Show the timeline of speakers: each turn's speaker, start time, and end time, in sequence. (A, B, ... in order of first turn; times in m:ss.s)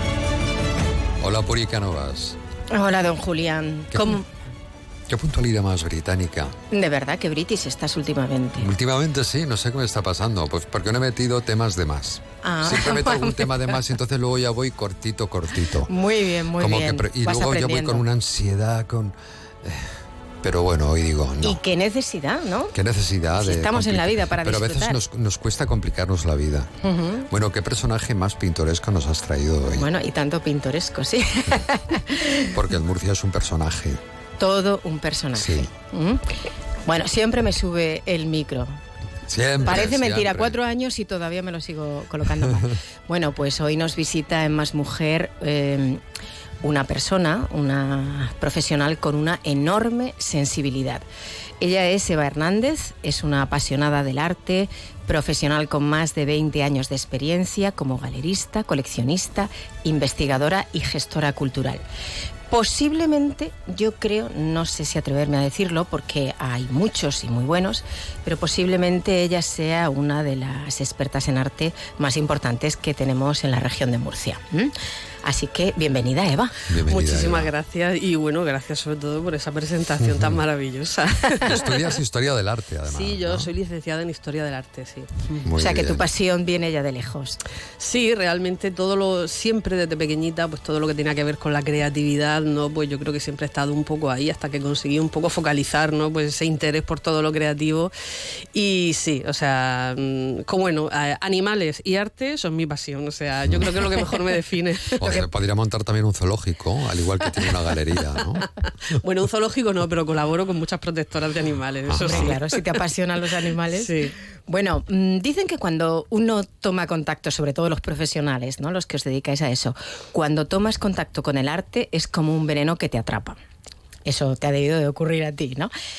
0:01.2-0:02.4 A
0:02.7-0:04.2 B
0:03.9-0:04.2 A
0:05.1-0:06.6 A
0:06.7-0:08.7 B
0:08.6-0:15.9 A
0:12.4-0:13.8 B
0:15.9-0:18.0 B
0:16.6-0:21.6 A
0:21.4-0:22.7 B
0:22.7-0:29.9 A
0:23.4-0:25.0 B
0:26.9-0:27.3 B
0:29.7-0:32.5 B
0:32.5-0:34.0 A
0:34.4-0:36.2 B
0:35.3-0:35.7 A
0:36.9-0:38.8 B
0:39.3-0:40.6 A
0:39.6-0:46.0 B
0:46.6-0:51.0 B
0:51.6-1:01.8 B
1:02.5-1:14.7 B
1:15.2-1:16.5 B
1:16.7-1:17.5 A
1:16.8-1:21.8 C
1:20.0-1:20.4 A
1:21.4-1:23.5 A
1:22.8-1:25.5 C
1:25.4-1:26.1 A
1:25.6-1:27.4 B
1:27.8-1:37.9 C
1:38.5-1:45.2 C
1:43.5-1:43.8 A
1:45.0-1:48.5 A
1:48.3-1:52.6 C
1:51.9-1:52.3 A
1:52.1-1:53.9 B
1:53.7-1:54.2 C
1:54.5-2:03.4 B
2:04.1-2:05.7 B